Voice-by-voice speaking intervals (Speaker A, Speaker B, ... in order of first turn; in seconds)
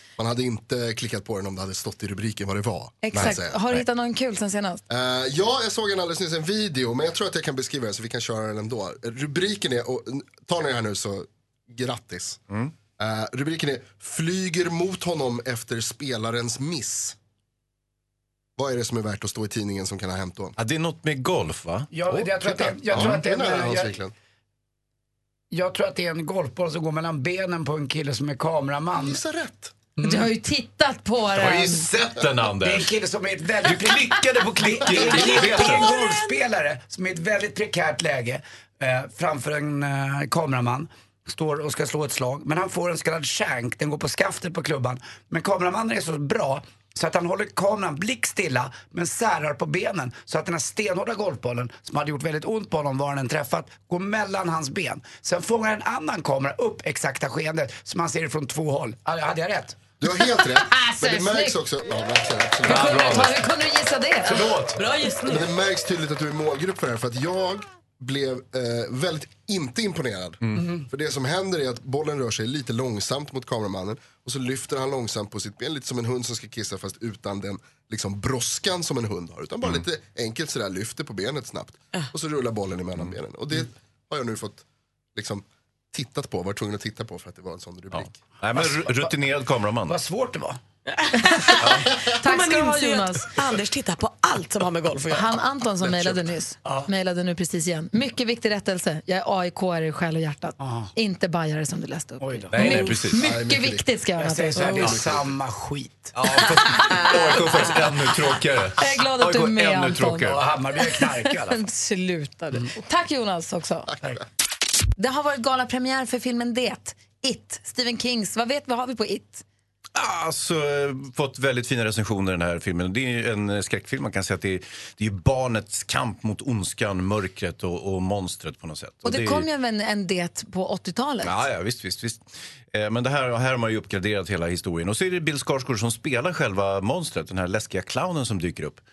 Speaker A: 0.2-3.6, 4.9-12.4, 13.0-17.1, 18.6-20.5, 22.9-24.1, 29.0-29.7, 60.0-63.2, 65.3-84.6, 85.1-88.2, 103.2-103.8, 104.6-105.3
Speaker B: 3.0-4.8, 30.0-31.9, 60.5-61.5, 62.6-64.4, 91.2-93.3, 95.1-104.9, 108.8-110.4, 111.0-113.9, 115.0-119.4, 129.0-131.5
Speaker C: 20.6-23.2, 31.3-32.9, 33.6-35.9, 62.7-63.4, 64.3-64.8, 87.9-90.0, 102.5-103.2, 106.1-110.4, 119.9-129.4, 131.2-138.8
Speaker D: 21.9-24.0, 25.5-29.2, 30.0-30.3, 32.6-59.8, 88.5-89.1, 89.8-90.6, 100.6-100.9, 102.2-102.9, 104.2-106.1, 110.2-111.6
Speaker E: 34.9-36.3, 64.8-65.5, 90.9-95.3